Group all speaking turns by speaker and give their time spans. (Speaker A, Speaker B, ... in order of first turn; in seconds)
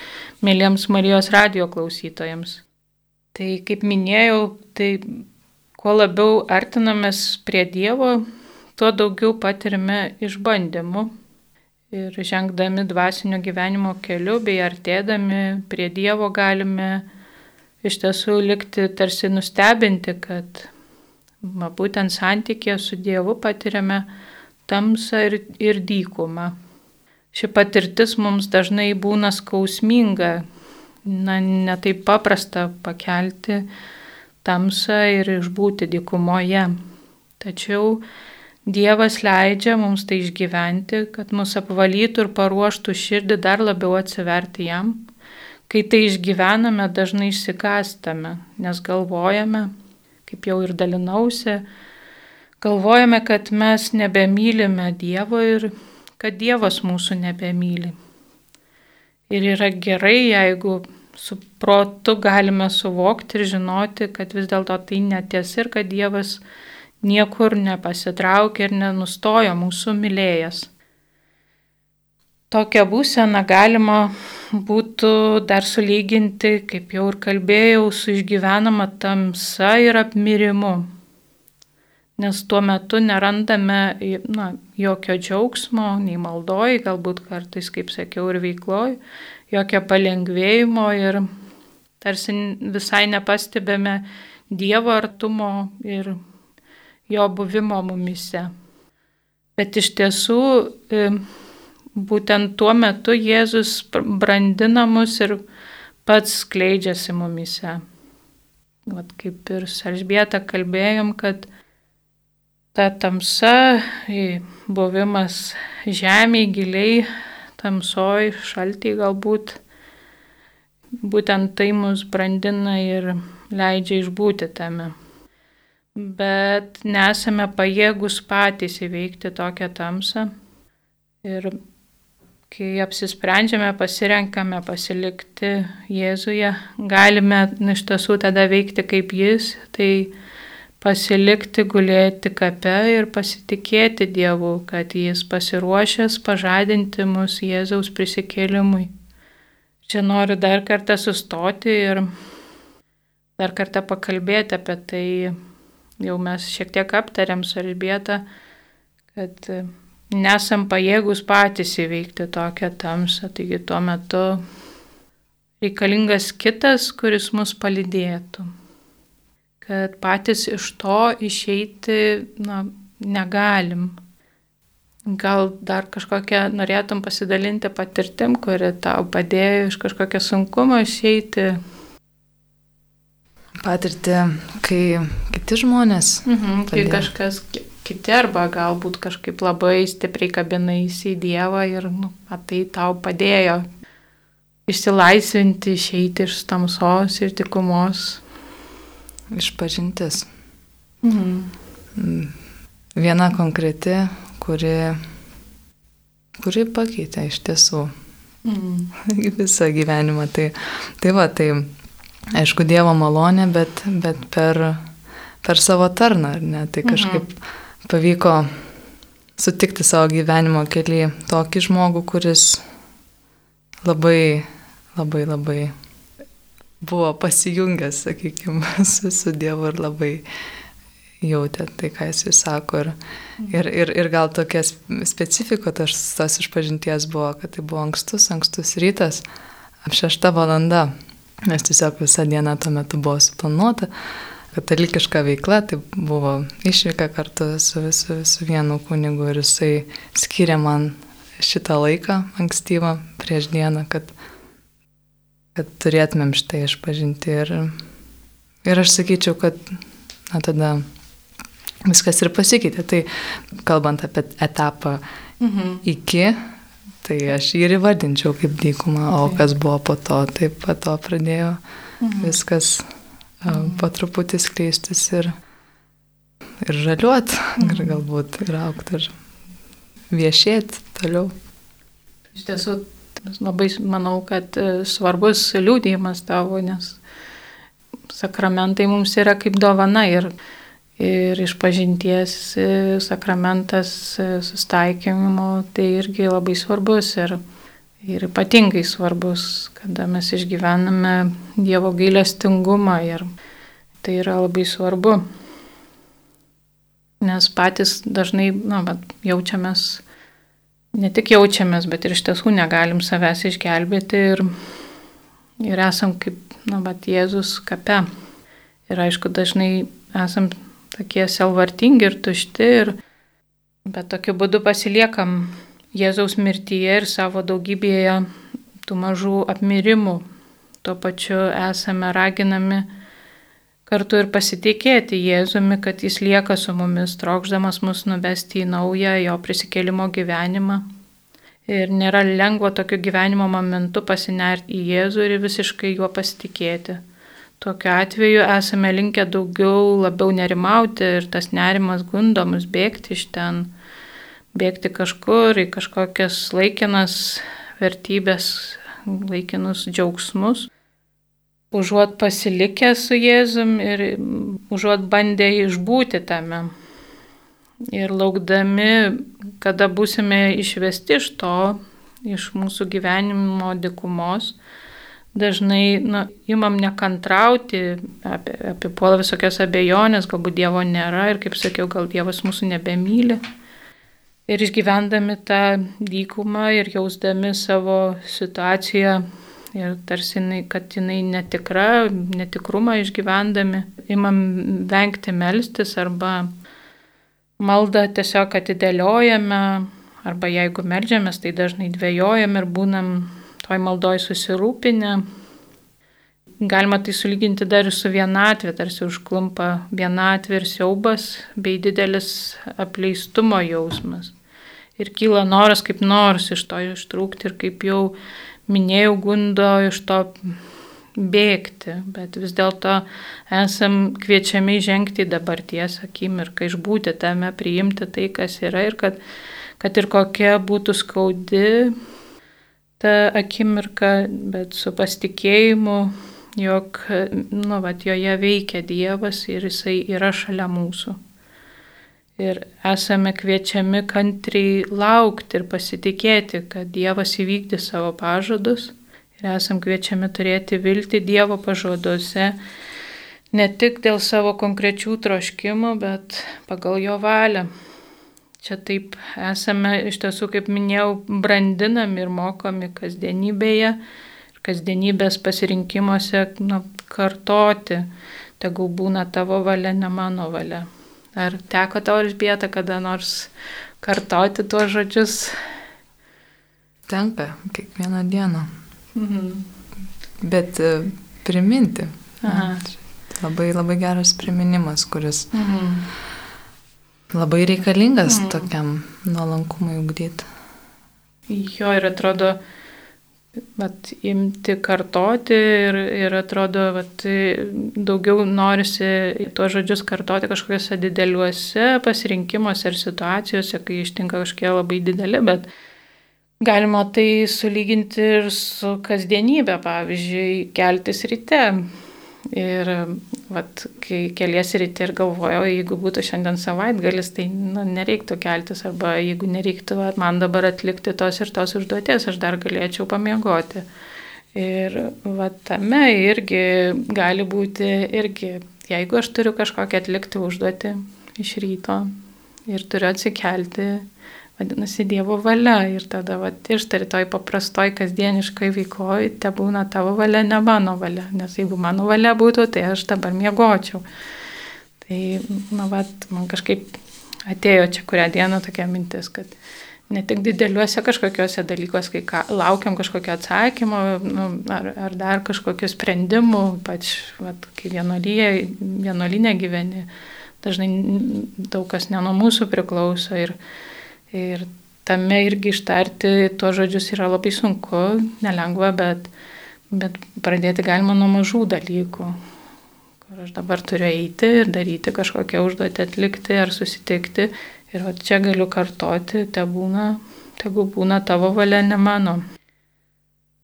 Speaker A: 0.4-2.6, 3.4-5.2, 5.8-8.2, 8.8-11.1, 11.9-17.1, 17.8-20.7, 21.4-24.1, 24.7-26.6, 27.3-30.4, 31.1-33.6, 34.4-36.8, 37.4-38.0, 38.7-45.0, 45.7-49.7, 50.3-51.6, 52.6-57.9, 59.3-66.4, 67.0-70.7, 72.5-80.9, 82.2-89.0, 89.5-91.3, 92.0-96.2, 97.1-98.5, 99.6-101.2, 102.0-105.4, 106.0-107.8, 108.9-111.5, 112.8-119.6, 121.0-124.9, 126.0-130.3, 131.2-131.6, 132.5-140.1, 140.8-148.9, 149.8-152.1, 153.4-155.3, 156.0-158.2, 159.2-164.4, 165.6-168.5, 169.6-174.0, 175.1-181.6, 186.3-193.7, 194.7-198.2, 201.0-201.5, 208.4-208.9, 216.8-217.2, 265.4-265.8, 272.0-272.4, 273.5-273.8, 277.6-278.0, 282.3-287.0, 288.1-290.3, 291.0-297.4, 298.0-303.3, 304.0-305.2, 307.2-310.0, 310.9-314.5, 315.6-318.1, 318.9-323.0, 323.9-328.2, 328.9-330.2, 330.8-332.9, 333.9-340.8, 341.7-347.0, 347.6-353.7, 354.5-360.7, 361.7-366.7, 367.9-374.6, 375.4-383.4, 384.5-389.2, 389.7-396.5, 397.6-405.2, 406.6-414.3, 415.0-418.1, 418.7-420.5, 421.2-429.2, 429.8-431.9, 433.0-441.2, 442.4-452.6, 453.5-457.7, 458.6-464.0, 464.6-468.1, 468.6-475.6, 479.1-479.7, 482.4-482.9, 485.5-486.1, 488.3-488.6, 491.5-492.6, 493.8-505.7, 506.6-511.9, 512.5-523.9, 524.5-532.1, 532.7-534.0, 534.6-544.0, 545.0-546.9, 547.5-549.5, 550.1-560.1, 560.6-563.5, 564.3-569.3, 569.9-572.4, 573.3-582.4
Speaker B: 183.6-187.1, 199.3-200.3, 202.0-202.3, 202.9-205.0, 206.4-207.9, 209.0-211.7, 212.3-214.8, 215.4-217.3, 217.9-218.5, 219.4-222.7, 223.8-225.7, 226.8-230.2, 231.2-239.2, 239.8-240.9, 241.5-243.9, 244.5-254.1, 255.6-257.8, 258.6-260.8, 261.9-265.0, 265.8-266.4, 267.0-271.6, 272.2-272.9, 273.4-275.3, 276.6-279.1, 280.1-281.3, 477.1-478.7, 480.4-485.5, 487.3-490.5